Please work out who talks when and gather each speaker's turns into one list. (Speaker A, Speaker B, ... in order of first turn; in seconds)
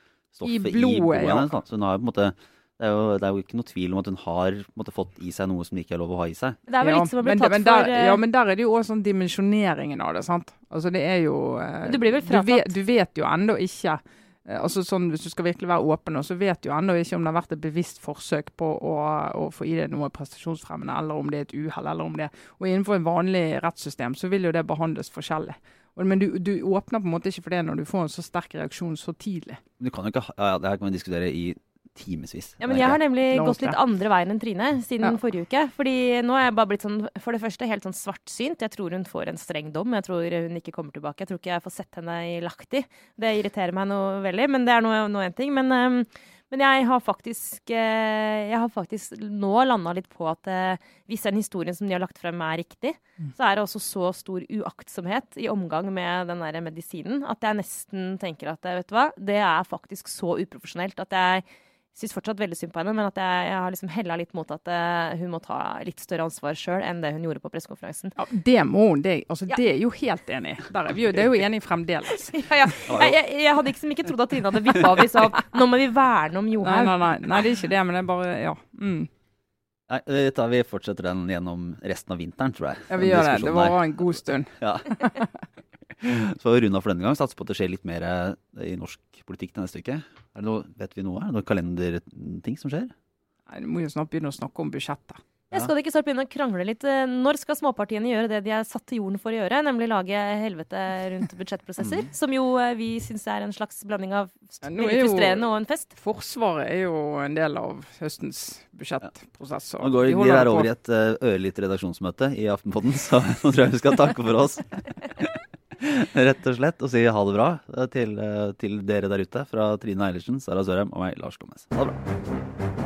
Speaker A: 0.3-6.6, 29.8-33.0, 72.9-73.2, 79.9-83.8, 84.6-84.9, 86.0-92.9, 109.8-122.0
Speaker B: 0.4-1.6, 6.8-29.6, 32.8-33.8, 68.2-72.8, 76.6-79.1, 82.9-85.2, 93.5-95.2, 104.6-110.7
Speaker C: 6.7-8.2, 11.8-12.8, 32.6-68.2, 72.3-77.4, 95.5-105.9